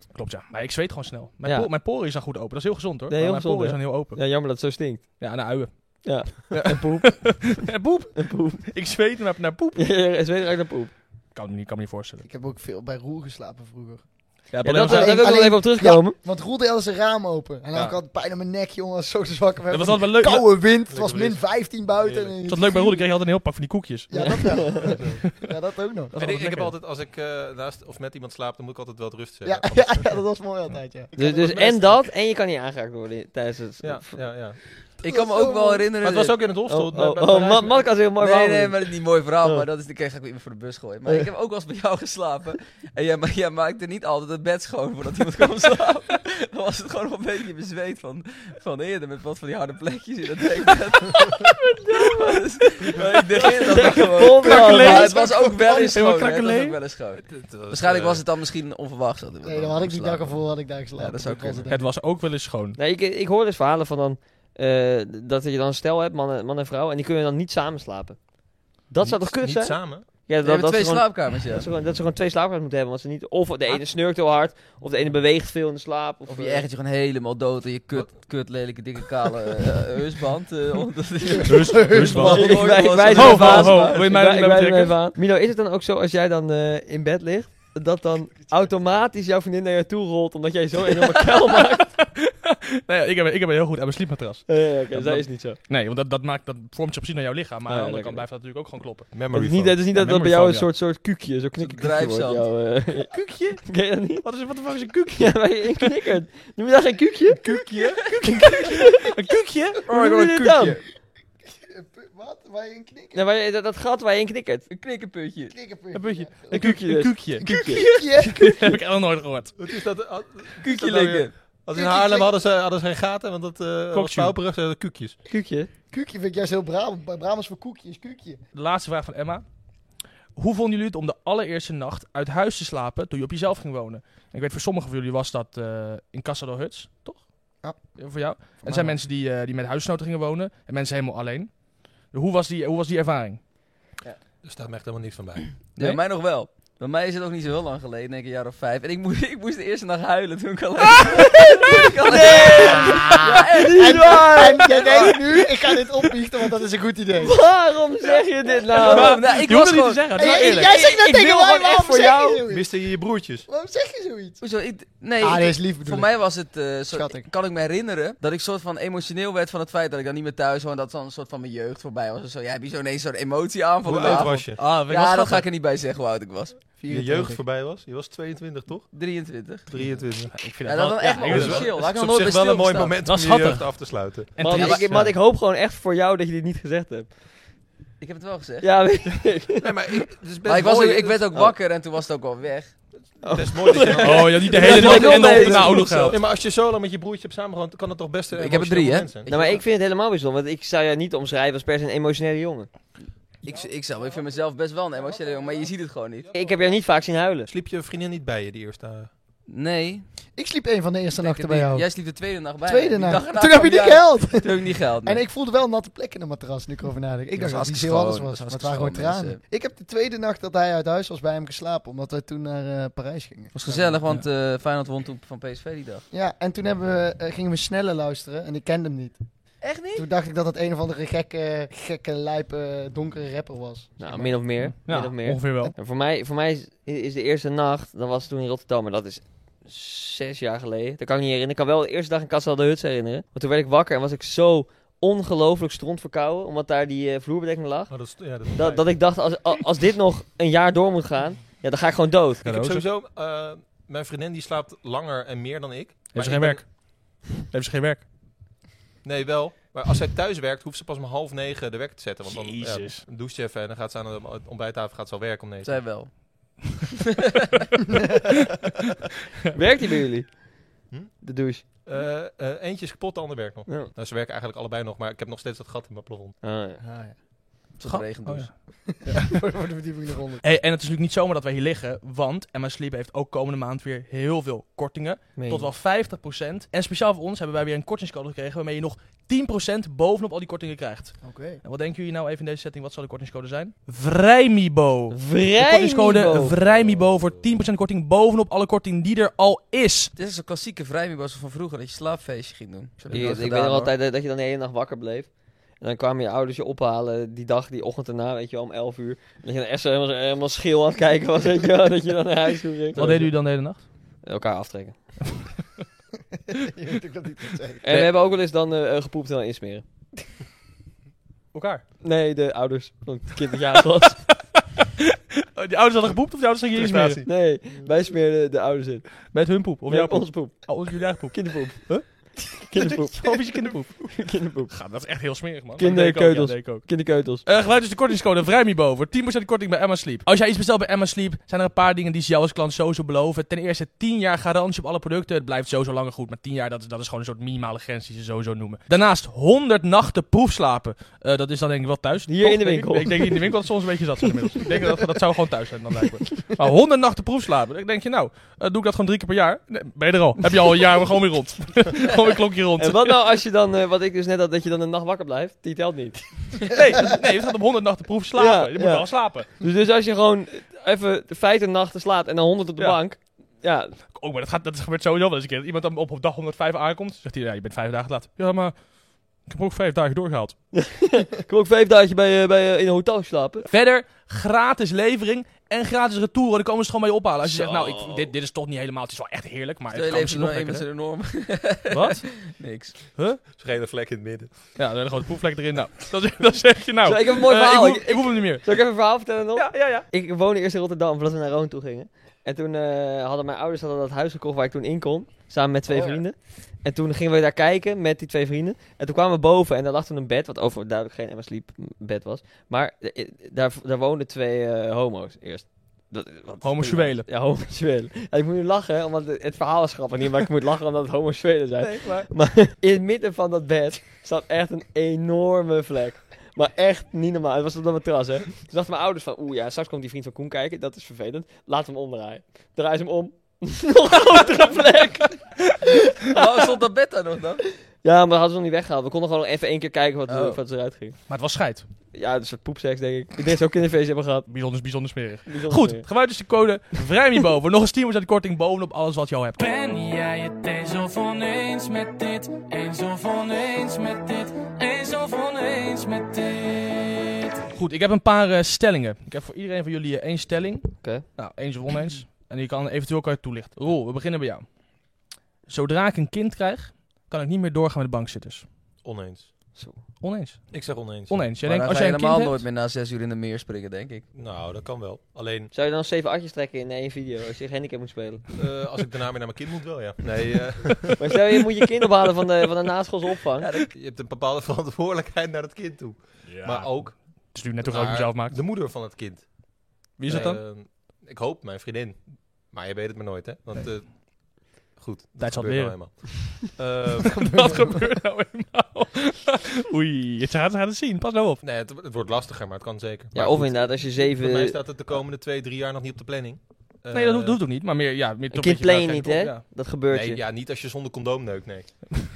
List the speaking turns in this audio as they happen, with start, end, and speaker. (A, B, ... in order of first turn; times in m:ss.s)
0:00.1-0:04.2 A
0:01.4-0:01.7 B
0:03.1-0:05.2 B
0:05.2-0:09.8 A
0:06.0-0:07.6 B
0:08.2-0:08.6 B
0:09.8-0:10.9 B
0:11.3-0:12.3 A
0:12.2-0:14.0 C
0:14.5-0:15.4 A
0:14.6-0:16.2 B
0:14.7-0:23.1 C
0:19.7-0:20.6 A
0:20.9-0:21.4 D
0:22.0-0:22.4 D
0:22.5-0:24.9 A
0:24.1-0:26.2 C
0:24.1-0:25.0 B
0:24.9-0:25.2 D
0:26.1-0:26.7 A
0:26.2-0:30.1 D
0:29.4-0:31.7 C
0:31.2-0:34.2 B
0:31.2-0:32.0 D
0:33.8-0:34.6 D
0:35.0-0:36.4 E
0:35.0-0:35.9 C
0:36.0-0:37.9 D
0:36.7-0:38.9 B
0:38.2-1:01.7 E
0:51.4-0:52.4 B
0:53.4-0:55.2 B
0:54.4-0:56.8 A
0:54.8-0:55.9 C
0:57.3-0:58.2 D
0:59.4-1:01.8 C
1:01.7-1:02.8 A
1:02.8-1:08.2 B
1:08.8-1:16.7 B
1:09.0-1:10.2 D
1:10.4-1:11.7 E
1:16.3-1:24.1 E
1:21.2-1:22.9 C
1:21.5-1:25.0 A
1:22.2-1:32.0 B
1:31.0-1:39.2 A
1:34.5-1:35.6 B
1:37.7-1:38.2 B
1:39.1-1:39.8 D
1:39.3-1:44.3 B
1:39.9-1:40.7 A
1:41.6-1:42.5 E
1:43.1-1:43.7 A
1:44.2-1:45.9 A
1:45.2-1:47.4 B
1:47.4-1:49.8 A
1:47.8-1:48.1 E
1:48.7-1:49.1 B
1:49.9-1:50.8 E
1:49.9-1:50.8 B
1:51.5-1:53.2 C
1:53.1-1:54.7 B
1:54.7-1:55.6 E
1:55.5-1:56.7 C
1:55.9-1:57.5 A
1:56.5-1:57.8 B
1:57.4-1:58.7 C
1:58.2-1:59.6 A
1:59.6-2:05.2 D
2:00.6-2:01.4 E
2:01.7-2:02.4 C
2:03.9-2:04.4 A
2:05.3-2:05.7 B
2:05.9-2:08.4 C
2:08.5-2:09.4 A
2:10.4-2:23.4 A
2:17.6-2:18.0 C
2:18.6-2:19.0 C
2:24.4-2:25.5 D
2:25.8-2:35.1 E
2:31.2-2:35.2 B
2:32.5-2:37.4 C
2:37.2-2:39.2 B
2:38.7-2:40.1 E
2:38.8-2:40.8 A
2:40.2-2:42.7 C
2:40.2-2:42.4 B
2:42.5-2:43.5 D
2:43.5-2:44.4 C
2:44.4-2:56.6 E
2:45.2-2:46.2 C
2:46.9-2:47.2 C
2:53.8-2:54.6 D
2:54.0-2:55.5 A
2:56.8-2:57.4 C
2:56.9-2:58.9 D
2:58.9-2:59.7 E
2:59.7-3:00.5 D
3:00.2-3:01.8 A
3:00.6-3:03.0 E
3:01.2-3:04.4 D
3:03.0-3:05.2 A
3:04.4-3:07.1 B
3:04.5-3:04.9 E
3:08.0-3:08.7 E
3:08.6-3:09.8 B
3:09.6-3:11.3 D
3:10.5-3:12.8 E
3:13.1-3:19.4 D
3:13.2-3:16.0 B
3:14.0-3:16.2 A
3:14.5-3:16.3 E
3:18.3-3:19.6 E
3:19.3-3:22.7 B
3:23.4-3:26.3 E
3:26.3-3:27.5 B
3:27.5-3:29.1 D
3:29.5-3:30.1 E
3:30.4-3:32.1 C
3:31.2-3:35.2 E
3:32.6-3:44.0 C
3:37.4-3:39.4 E
3:43.5-3:46.0 E
3:46.1-3:49.2 C
3:49.6-3:50.1 E
3:49.9-3:54.4 C
3:54.0-4:12.5 B
3:54.6-3:55.7 A
4:07.9-4:09.0 D
4:12.4-4:12.9 A
4:12.4-4:16.6 D
4:16.1-4:18.0 A
4:19.0-4:25.9 D
4:22.3-4:23.0 A
4:25.6-4:26.7 E
4:29.5-4:30.7 B
4:30.9-4:31.2 D
4:31.2-4:31.6 B
4:31.8-4:36.4 D
4:33.7-4:33.9 B
4:36.4-4:36.8 B
4:36.8-4:37.2 C
4:37.8-4:38.5 E
4:37.8-4:39.3 A
4:38.9-4:40.4 C
4:40.4-5:00.1 A
4:45.4-4:45.7 B
4:51.2-4:51.6 C
4:55.1-4:56.6 B
4:56.6-4:57.5 D
5:00.2-5:03.9 E
5:03.1-5:13.3 B
5:13.0-5:13.8 A
5:14.2-5:15.0 B
5:16.5-5:17.9 C
5:17.8-5:19.8 B
5:17.9-5:18.1 A
5:21.5-5:21.8 A
5:22.0-5:24.3 B
5:25.6-5:27.3 A
5:26.8-5:27.2 D
5:27.2-5:29.3 B
5:29.3-6:03.2 A
5:29.9-5:34.7 B
5:35.8-5:37.4 B
5:52.3-5:53.5 B
6:02.8-6:07.1 B
6:06.7-6:09.5 A
6:08.4-6:14.0 B
6:14.1-6:20.6 A
6:20.7-6:23.7 B
6:23.7-6:30.9 A
6:27.5-6:28.3 E
6:29.9-6:33.0 E
6:31.9-6:32.4 A
6:33.2-6:33.4 A
6:33.5-6:34.6 D
6:34.8-6:38.7 A
6:37.0-7:16.4 B
6:39.6-6:40.1 A
6:56.6-6:57.3 A
7:01.8-7:02.3 A
7:16.2-7:17.6 E
7:18.0-7:21.2 B
7:20.3-7:20.6 E
7:21.3-7:21.9 A
7:22.1-7:24.5 B
7:24.5-7:29.6 A
7:25.5-7:26.1 B
7:29.6-7:37.6 F
7:37.8-7:44.8 A
7:41.0-7:41.3 B
7:45.7-7:48.7 A
7:49.0-7:49.5 D
7:49.8-7:50.0 B
7:50.2-7:52.6 A
7:50.7-7:51.4 D
7:51.6-7:54.3 E
7:54.3-7:55.7 D
7:55.7-7:58.5 B
7:58.6-8:01.2 D
8:01.2-8:03.9 B
8:03.7-8:09.5 D
8:06.5-8:08.6 A
8:10.0-8:17.6 D
8:10.2-8:10.6 A
8:15.4-8:16.2 A
8:17.4-8:21.6 A
8:17.6-8:18.0 C
8:21.6-8:27.6 D
8:23.3-8:24.8 B
8:27.1-8:29.6 A
8:28.5-8:30.4 B
8:30.1-8:32.1 D